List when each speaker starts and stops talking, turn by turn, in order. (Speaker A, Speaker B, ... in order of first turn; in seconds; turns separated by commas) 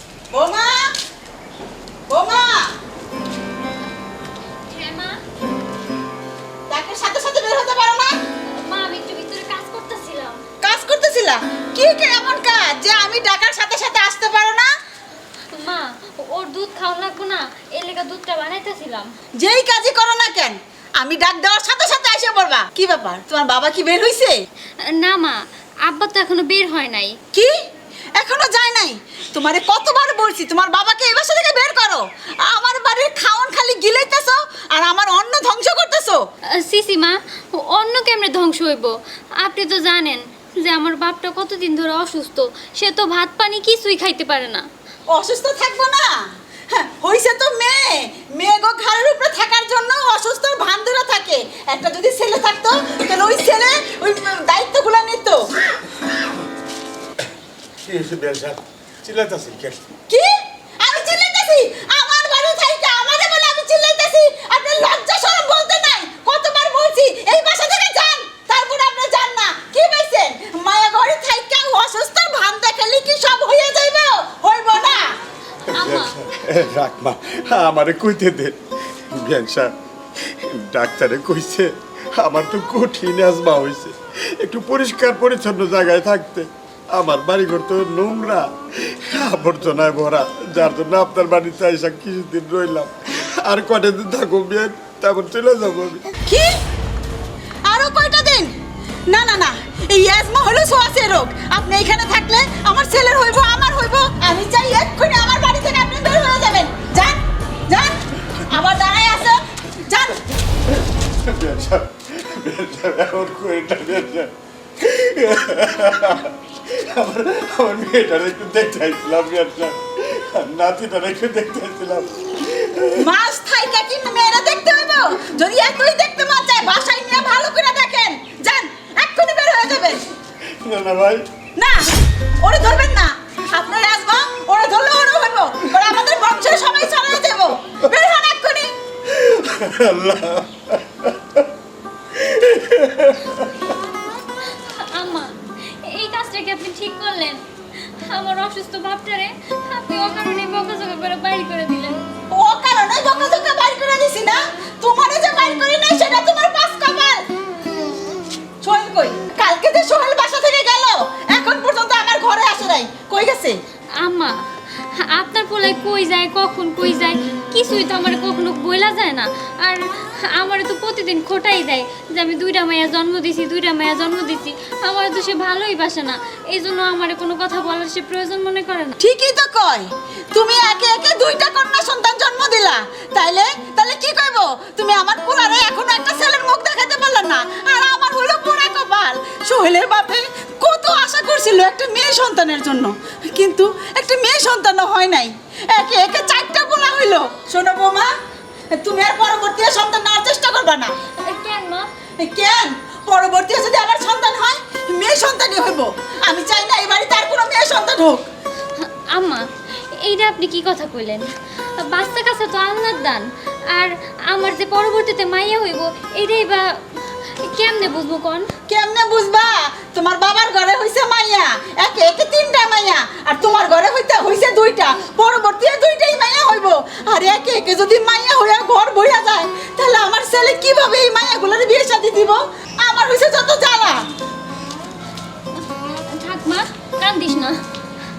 Speaker A: 0.3-0.9, Speaker A: 2.1-2.7, Speaker B: 4.7-5.2, Speaker A: 6.7-8.2, Speaker B: 8.6-10.4, Speaker A: 10.6-14.7, Speaker B: 15.5-19.1, Speaker A: 19.4-24.4, Speaker B: 24.9-27.2, Speaker A: 27.3-27.6, Speaker A: 28.1-36.2, Speaker B: 36.6-44.7, Speaker A: 45.1-55.5, Speaker C: 57.8-59.9, Speaker A: 60.1-75.2, Speaker C: 75.7-96.1, Speaker B: 75.7-76.1, Speaker A: 96.2-96.6, Speaker A: 97.7-98.5, Speaker A: 99.1-110.2, Speaker C: 111.0-123.1, Speaker A: 123.0-130.0, Speaker C: 130.6-131.3, Speaker A: 131.6-131.9, Speaker A: 132.4-138.7, Speaker C: 139.1-141.5, Speaker C: 142.1-143.8, Speaker B: 144.5-152.0, Speaker A: 152.3-157.3, Speaker A: 158.6-163.6, Speaker B: 164.0-179.0, Speaker A: 179.0-198.1, Speaker A: 198.7-200.9, Speaker B: 201.2-201.9, Speaker A: 202.2-208.3, Speaker B: 208.8-218.5, Speaker A: 218.7-234.0, Speaker B: 235.6-237.6